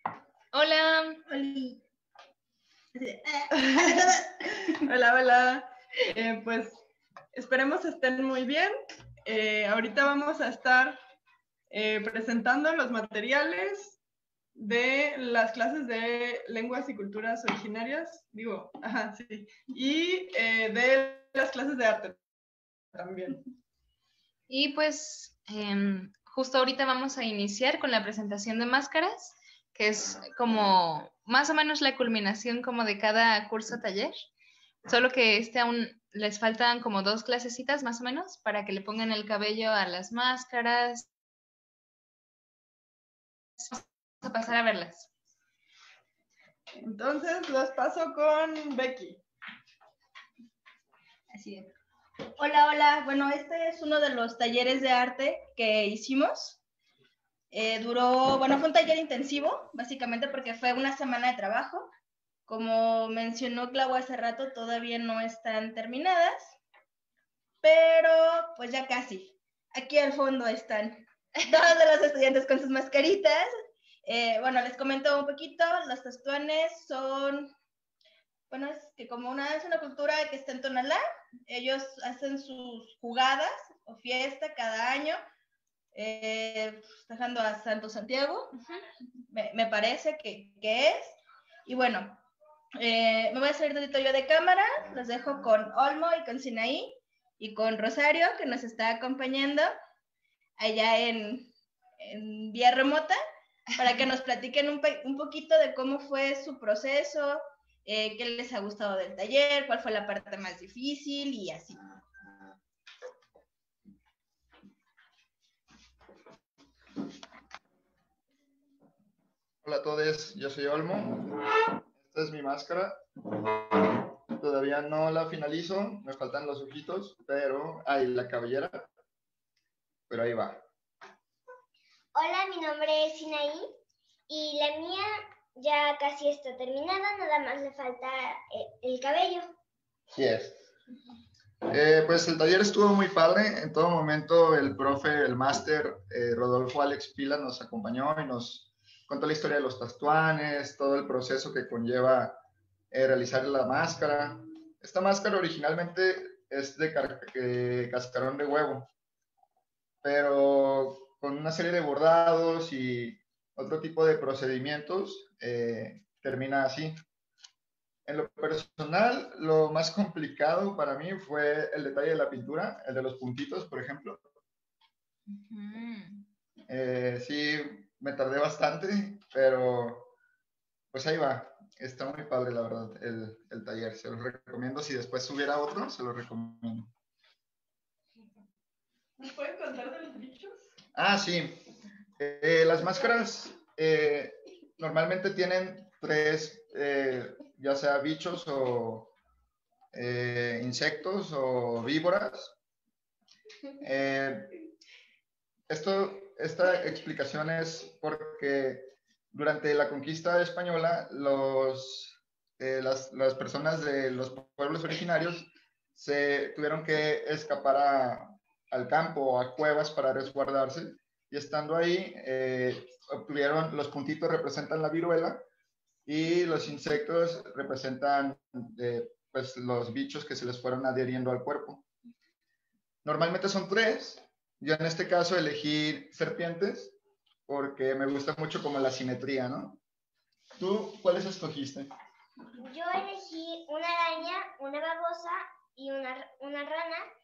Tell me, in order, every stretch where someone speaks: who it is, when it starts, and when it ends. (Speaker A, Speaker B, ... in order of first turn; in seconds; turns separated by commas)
Speaker A: 0.5-1.2, Speaker B: 1.3-1.8, Speaker B: 2.9-4.3, Speaker C: 3.5-6.7, Speaker C: 7.3-8.7, Speaker C: 9.2-11.0, Speaker C: 11.7-14.0, Speaker C: 14.6-22.2, Speaker C: 22.9-23.4, Speaker A: 24.5-34.1, Speaker A: 34.9-41.0, Speaker A: 43.6-45.1, Speaker C: 46.8-49.2, Speaker B: 51.3-51.7, Speaker B: 52.4-56.6, Speaker B: 57.5-61.9, Speaker B: 62.5-66.5, Speaker B: 67.6-73.4, Speaker B: 74.0-77.5, Speaker B: 78.5-85.2, Speaker B: 85.9-88.5, Speaker B: 89.3-91.1, Speaker B: 91.7-92.2, Speaker B: 92.8-99.6, Speaker B: 100.6-101.5, Speaker B: 102.0-103.1, Speaker B: 103.8-111.8, Speaker D: 119.6-121.4, Speaker D: 122.0-122.9, Speaker D: 123.7-128.9, Speaker D: 130.1-130.6, Speaker E: 132.1-133.7, Speaker E: 134.3-139.5, Speaker D: 140.1-140.6, Speaker D: 141.7-152.4, Speaker D: 152.9-158.9, Speaker D: 160.0-166.9, Speaker D: 168.1-174.2, Speaker A: 175.3-176.2, Speaker D: 176.7-180.1, Speaker D: 180.9-186.9, Speaker C: 189.2-190.5, Speaker D: 190.9-191.6, Speaker D: 192.2-199.1, Speaker D: 199.9-202.6, Speaker D: 203.8-204.5, Speaker D: 205.7-225.4, Speaker D: 226.1-231.8, Speaker D: 233.0-236.9, Speaker D: 237.5-239.8, Speaker D: 240.6-241.9, Speaker E: 242.6-247.0